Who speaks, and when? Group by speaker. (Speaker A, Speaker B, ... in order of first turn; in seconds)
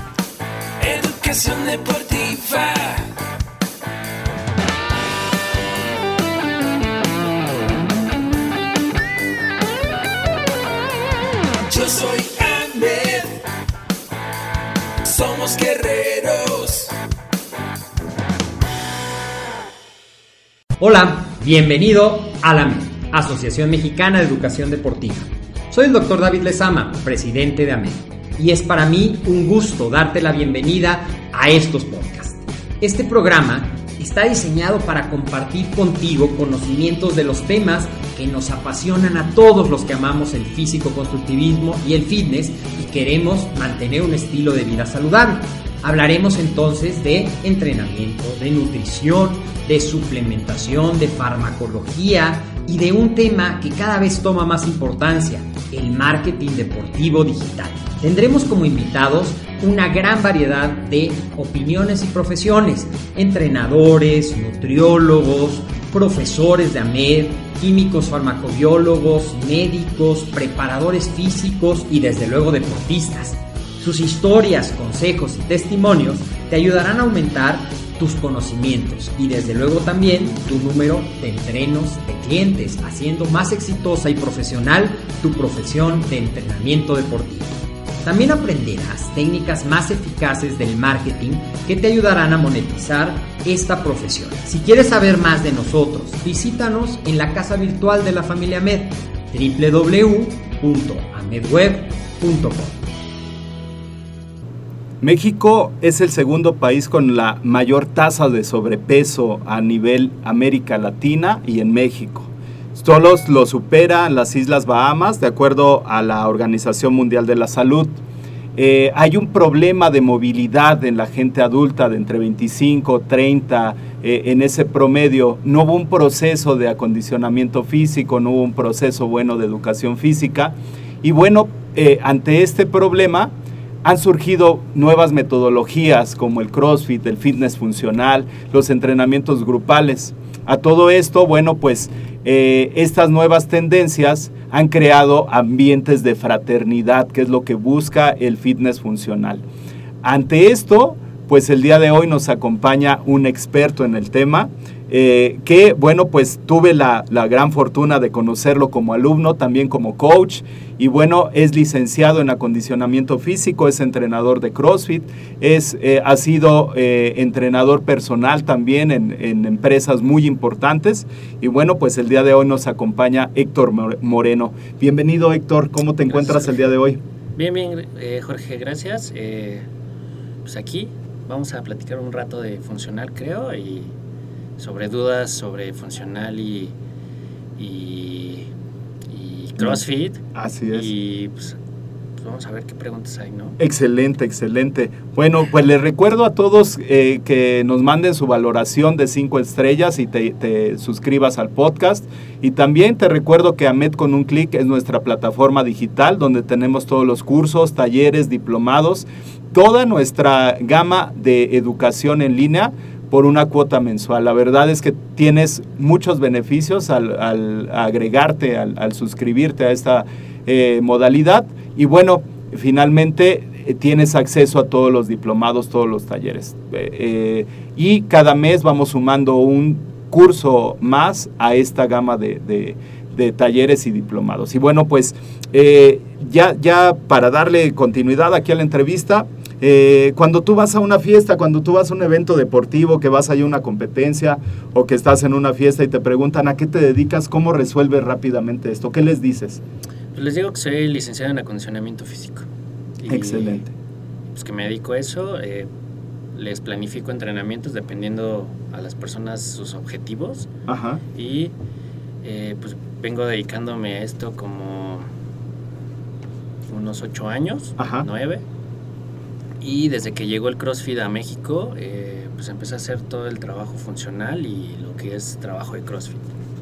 Speaker A: 0.8-3.1, 11.7-13.4, 15.0-16.9
Speaker B: 20.8-102.8
Speaker C: 105.0-118.0, 118.6-149.4, 150.0-177.0, 190.3-190.9, 193.6-249.6, 253.1-253.7, 260.7-261.0, 267.8-268.1
Speaker D: 176.2-176.5, 177.4-179.7, 180.4-184.0, 184.6-186.8, 187.6-188.5, 189.1-191.6, 192.2-193.6, 250.1-252.5, 253.0-253.7, 254.3-255.7, 256.3-260.5, 261.1-261.5, 262.2-265.1, 266.7-268.4, 269.6-276.2